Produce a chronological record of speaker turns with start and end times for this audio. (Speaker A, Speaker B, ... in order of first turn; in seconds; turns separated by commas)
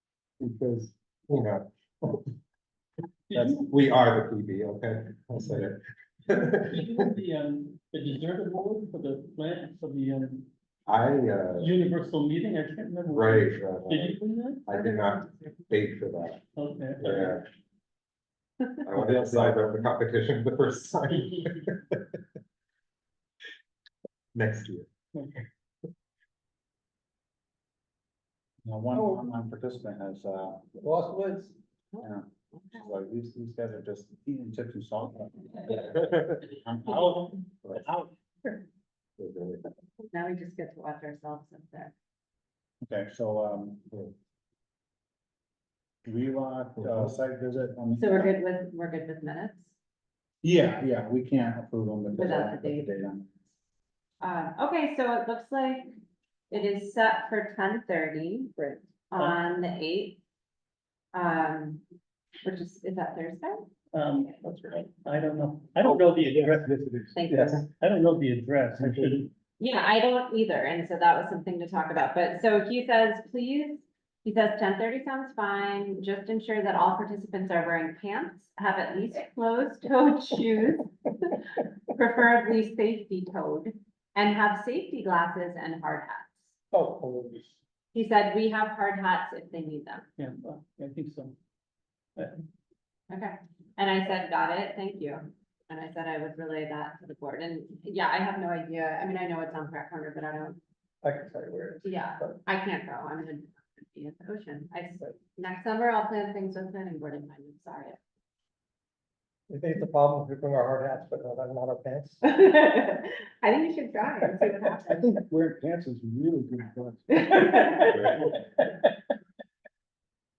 Speaker A: 0.4-2.3, Speaker B: 3.3-3.7, Speaker A: 3.5-7.1, Speaker B: 6.7-10.5, Speaker A: 10.9-11.7, Speaker B: 11.6-14.7, Speaker A: 13.1-16.4, Speaker C: 14.7-15.6, Speaker B: 16.5-17.4, Speaker A: 17.0-17.5, Speaker A: 18.8-22.0, Speaker D: 18.9-19.9, Speaker A: 24.3-24.9, Speaker D: 28.6-30.6, Speaker E: 30.7-31.5, Speaker D: 32.0-38.1, Speaker A: 39.2-39.6, Speaker C: 40.1-41.9, Speaker D: 42.8-43.9, Speaker D: 46.0-48.3, Speaker A: 46.8-47.1, Speaker C: 48.0-49.7, Speaker D: 50.4-53.3, Speaker C: 52.1-52.9, Speaker C: 54.2-56.0, Speaker C: 56.5-58.6, Speaker E: 58.6-58.9, Speaker C: 59.1-60.2, Speaker C: 61.1-61.8, Speaker C: 62.4-63.7, Speaker B: 63.9-66.7, Speaker E: 64.4-64.9, Speaker D: 66.4-67.1, Speaker C: 67.1-67.7, Speaker B: 67.2-69.3, Speaker C: 69.6-86.5, Speaker E: 86.7-87.6, Speaker C: 87.9-90.1, Speaker B: 90.2-91.3, Speaker B: 92.2-92.4, Speaker C: 93.1-100.6, Speaker E: 101.0-102.4, Speaker C: 101.8-108.0, Speaker E: 109.5-112.2, Speaker C: 112.2-115.2, Speaker D: 115.0-117.9, Speaker C: 117.1-118.3, Speaker A: 117.9-118.3